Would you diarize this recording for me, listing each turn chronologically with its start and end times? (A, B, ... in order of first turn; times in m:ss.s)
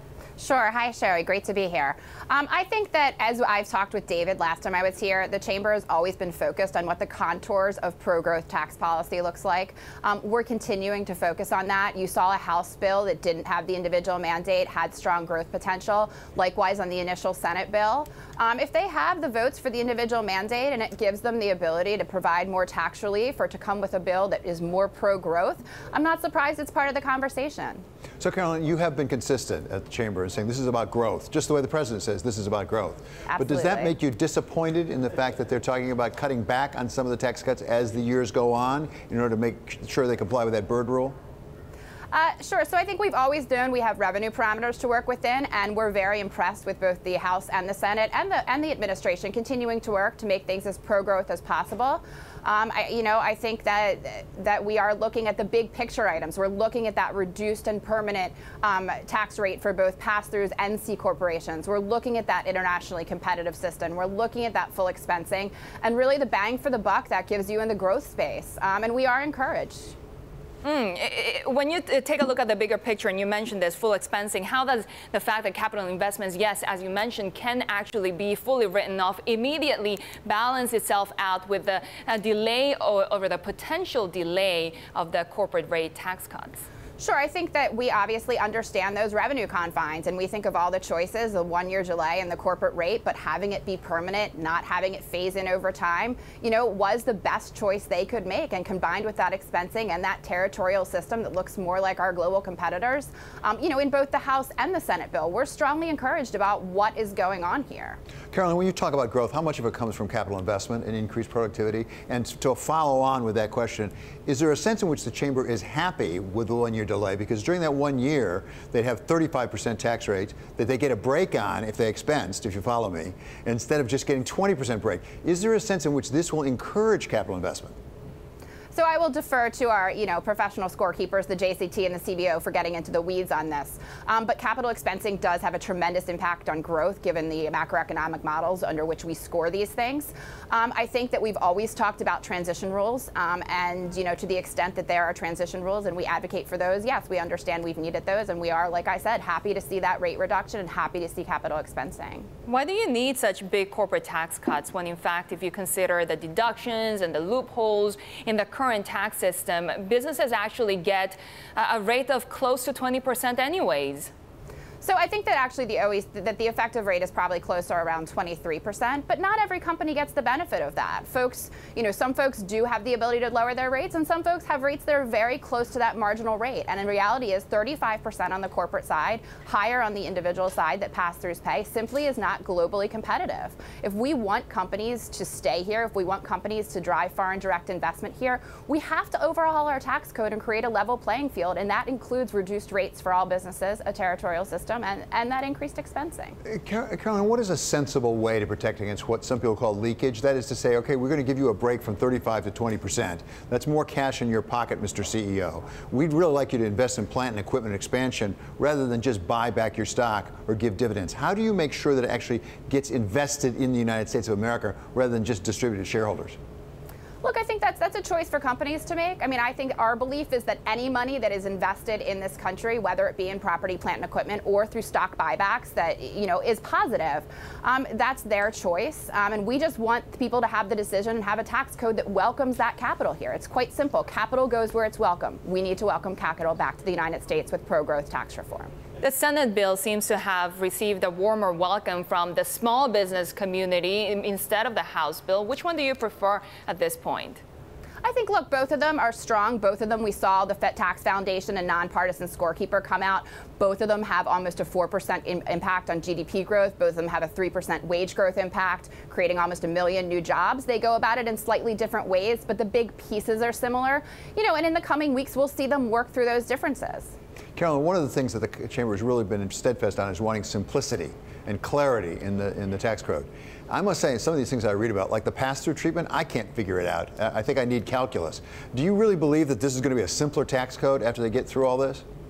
0:00.4-0:27.8 A
0:28.2-0:41.1 B
0:33.3-0:33.9 A
0:42.1-1:09.9 A
1:10.6-1:26.6 C
1:27.0-1:48.0 A
1:48.3-2:07.7 B
2:08.7-2:32.3 A
2:32.4-2:44.1 C
2:44.8-3:16.4 A
3:16.4-3:36.4 B
3:37.2-3:58.7 A
3:59.0-4:07.4 C
4:08.0-4:27.1 A
4:27.6-4:42.0 B